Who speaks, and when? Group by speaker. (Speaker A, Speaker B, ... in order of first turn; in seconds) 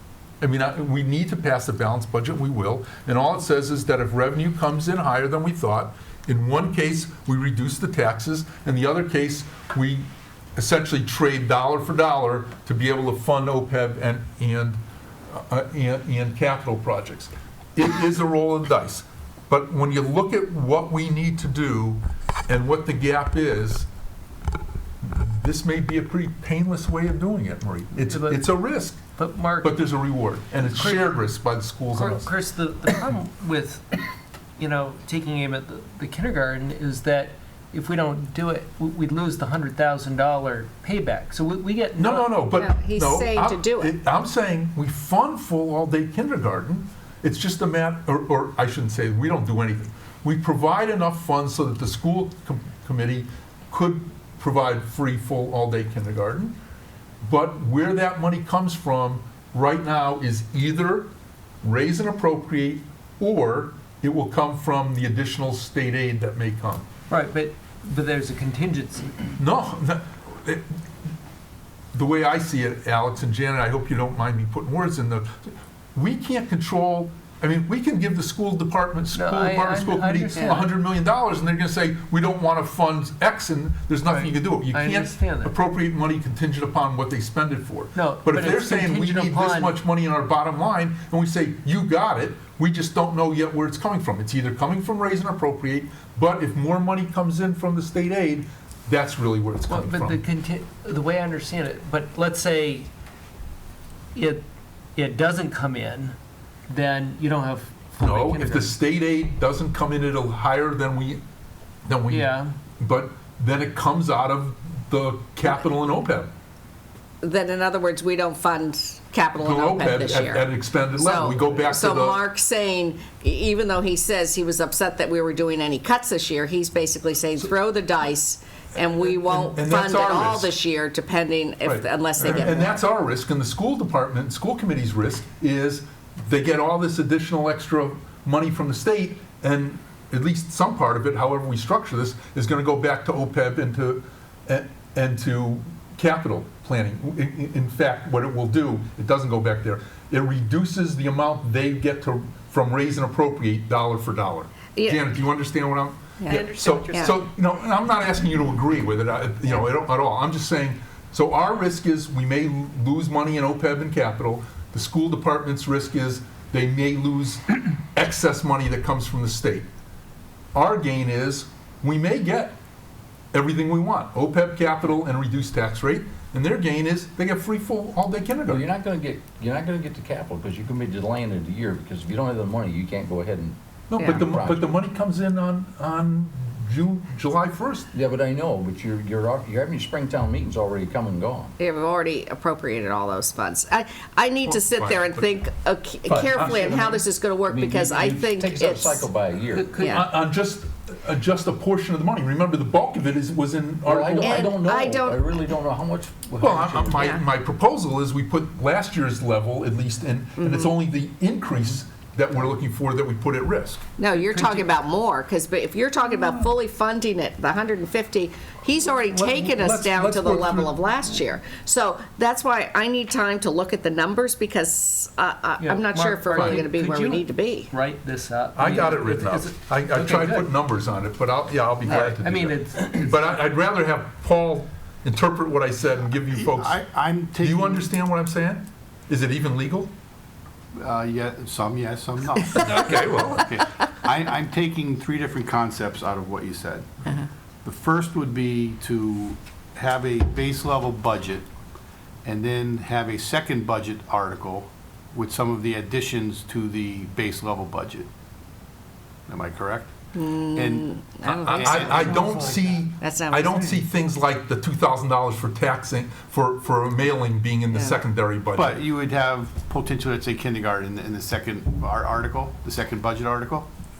Speaker A: 0.4-14.8, 15.3-23.9, 25.0-29.0, 29.6-32.3, 42.0-56.6, 57.2-61.1, 61.6-66.9, 69.4-70.7, 71.9-100.2, 108.0-111.2, 111.8-116.3, 119.4-122.2, 129.1-130.5, 131.6-169.7, 170.5-172.6, 173.3-178.7, 183.9-187.9, 194.5-195.3, 196.1-197.1, 199.8-204.6, 206.4-213.8, 216.1-216.5, 219.1-220.8, 226.3-226.7, 228.6-236.8, 237.4-239.9, 242.6-243.5, 261.2-268.8
Speaker B: 28.0-28.5, 29.2-29.8, 30.7-31.1, 31.9-34.0, 34.6-42.4, 67.1-69.3, 79.1-80.7, 84.0-85.5, 88.0-89.7, 99.7-102.9, 104.1-104.5, 105.0-106.2, 106.7-108.8, 112.1-112.5, 156.3-157.2, 199.5-200.1, 214.1-214.7, 225.6-230.5, 231.9-233.1
Speaker C: 42.6-43.9, 117.2-132.8, 154.8-155.0, 156.2-157.1, 191.6-199.1, 204.2-205.2, 210.4-210.7, 214.0-227.7, 260.1-263.7, 267.7-268.0
Speaker D: 178.5-184.7, 187.9-191.5, 197.5-199.8, 203.8-207.2
Speaker E: 236.3-237.9, 240.8-247.1, 247.6-251.5, 252.2-258.1, 259.3-259.9, 260.5-260.9, 261.5-262.7, 268.6-273.7